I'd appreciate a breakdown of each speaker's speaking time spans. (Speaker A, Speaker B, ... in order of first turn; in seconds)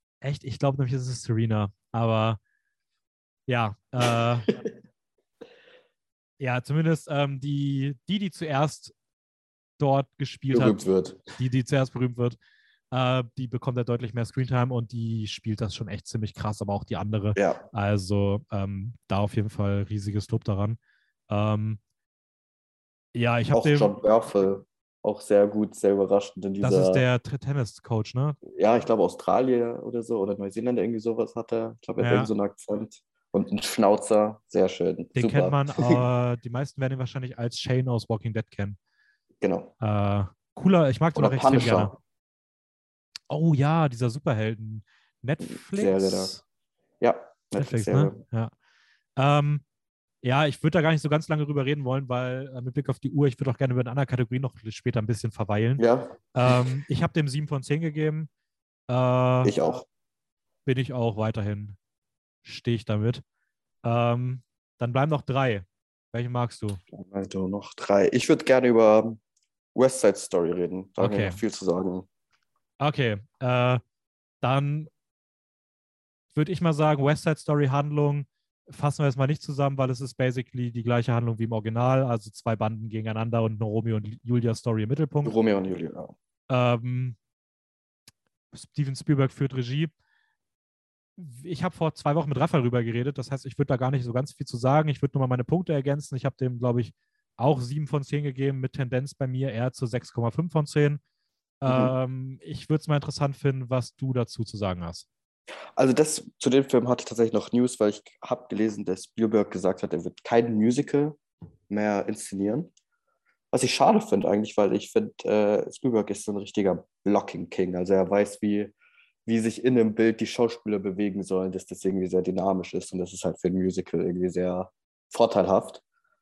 Speaker A: 0.2-2.4, 3.5-4.5, 6.4-8.9, 9.8-10.8, 11.3-12.4, 12.9-20.8, 21.3-21.8, 23.1-23.9, 26.6-28.4, 32.0-32.3, 35.1-38.8, 39.8-41.9, 43.3-46.4, 47.6-48.5, 49.2-49.6, 50.2-58.3, 58.9-59.6, 60.6-61.8, 62.4-63.2, 63.8-66.8, 71.0-71.4, 72.8-73.8, 74.4-74.9, 76.3-85.3, 86.5-87.2, 88.5-89.9, 91.2-101.0, 101.6-105.1
Speaker B: 10.5-11.3, 17.4-17.6, 23.5-27.0, 28.5-36.0, 39.4-39.7, 41.1-41.9, 45.4-46.3, 47.0-48.2, 55.8-56.6, 59.4-59.8, 66.9-69.2, 69.7-72.0, 85.2-86.1, 101.7-101.9, 105.8-111.2, 111.7-112.7, 113.5-118.7, 119.2-125.8